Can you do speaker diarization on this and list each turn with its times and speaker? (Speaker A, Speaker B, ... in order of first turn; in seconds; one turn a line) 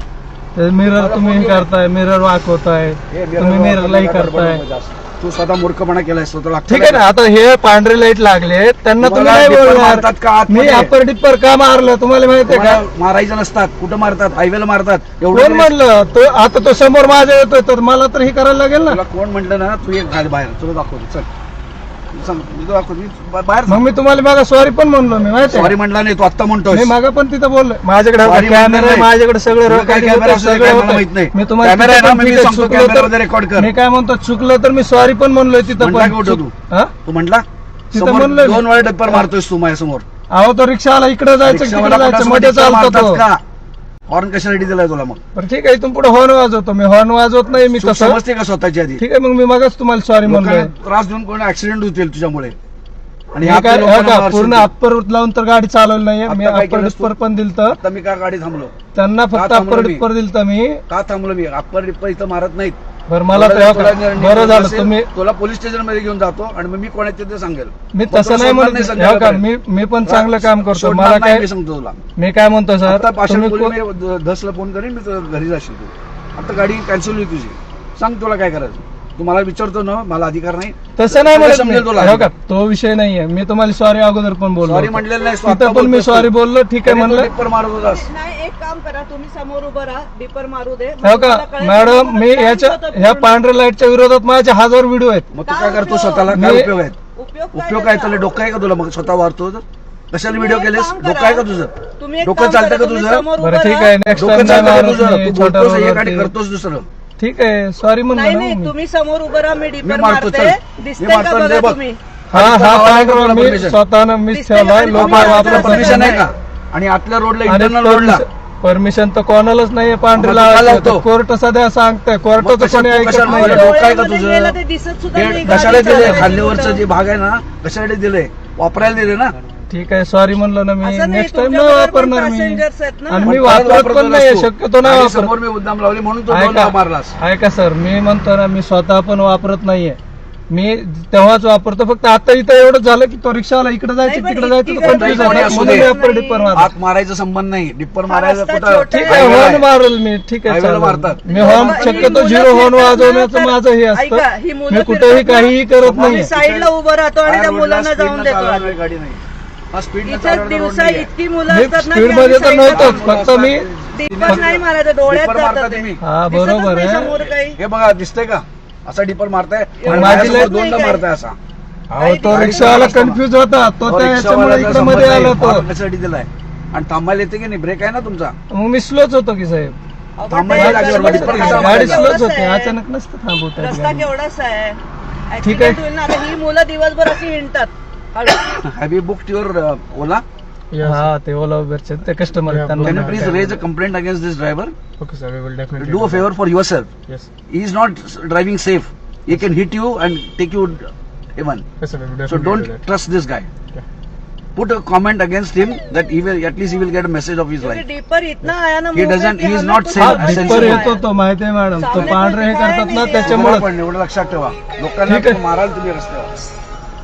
Speaker A: 0.6-4.6
Speaker B: 0.9-1.7
Speaker B: 3.1-7.0
Speaker A: 6.7-12.8
Speaker B: 9.0-10.9
Speaker B: 12.5-15.7
Speaker A: 15.3-19.0
Speaker B: 18.9-21.3
Speaker B: 22.1-23.8
Speaker A: 23.7-25.8
Speaker B: 25.4-26.9
Speaker A: 26.7-36.9
Speaker B: 28.2-29.1
Speaker B: 29.7-33.7
Speaker B: 35.8-36.5
Speaker B: 37.0-40.0
Speaker A: 37.9-39.3
Speaker A: 40.3-43.2
Speaker B: 41.4-43.4
Speaker B: 44.1-45.2
Speaker A: 45.4-48.2
Speaker B: 47.7-49.0
Speaker A: 49.0-50.7
Speaker B: 50.2-52.5
Speaker B: 53.3-54.7
Speaker A: 53.4-57.8
Speaker B: 56.3-57.1
Speaker B: 57.7-58.7
Speaker A: 59.0-60.8
Speaker B: 59.3-60.1
Speaker B: 60.9-62.8
Speaker A: 63.1-65.1
Speaker B: 63.3-69.5
Speaker A: 67.9-71.5
Speaker B: 70.0-72.0
Speaker A: 72.2-73.8
Speaker B: 72.8-82.3
Speaker A: 81.0-87.3
Speaker B: 84.6-86.3
Speaker B: 86.8-88.1
Speaker C: 87.8-93.4
Speaker A: 91.0-95.3
Speaker B: 95.3-97.0
Speaker C: 95.5-96.4
Speaker A: 96.3-96.8
Speaker C: 97.2-98.2
Speaker B: 97.5-103.3
Speaker C: 100.3-101.5
Speaker C: 102.0-104.0
Speaker A: 103.4-106.3
Speaker B: 104.2-106.9
Speaker A: 107.2-108.7
Speaker C: 108.2-112.0
Speaker B: 109.8-111.8
Speaker B: 112.3-113.8
Speaker A: 112.3-116.2
Speaker C: 114.3-116.2
Speaker B: 114.9-118.2
Speaker A: 117.5-123.7
Speaker B: 120.2-121.0
Speaker B: 122.4-124.6
Speaker C: 123.3-126.8
Speaker B: 125.1-129.3
Speaker A: 125.5-126.3
Speaker A: 129.7-135.3
Speaker C: 130.8-133.3
Speaker B: 133.2-137.1
Speaker A: 136.3-140.0
Speaker A: 140.5-146.7
Speaker C: 144.0-146.5
Speaker B: 144.8-145.9
Speaker B: 146.5-149.7
Speaker C: 148.1-149.6
Speaker A: 148.9-156.3
Speaker B: 150.5-152.3
Speaker C: 151.3-158.7
Speaker B: 155.8-156.7
Speaker B: 157.2-161.1
Speaker C: 160.1-163.1
Speaker A: 161.5-163.6
Speaker B: 162.7-166.0
Speaker C: 163.9-167.6
Speaker A: 166.0-167.1
Speaker B: 167.6-171.4
Speaker C: 169.8-171.0
Speaker A: 169.9-170.6
Speaker C: 172.0-172.9
Speaker A: 172.0-175.7
Speaker B: 172.1-173.2
Speaker B: 173.9-178.3
Speaker A: 178.5-179.8
Speaker C: 180.2-182.8
Speaker B: 180.3-182.1
Speaker A: 180.5-184.1
Speaker C: 183.6-188.6
Speaker A: 185.4-185.8
Speaker B: 188.6-190.2
Speaker D: 190.7-191.1
Speaker A: 190.8-193.5
Speaker D: 192.5-193.5
Speaker B: 192.8-194.7
Speaker D: 195.0-196.3
Speaker B: 195.8-196.9
Speaker B: 197.5-201.7
Speaker D: 201.8-202.8
Speaker B: 202.3-203.5
Speaker B: 204.6-207.8
Speaker C: 207.6-211.0
Speaker B: 208.9-210.9
Speaker A: 210.0-213.7
Speaker C: 211.8-213.5
Speaker B: 213.2-216.3
Speaker A: 215.1-215.4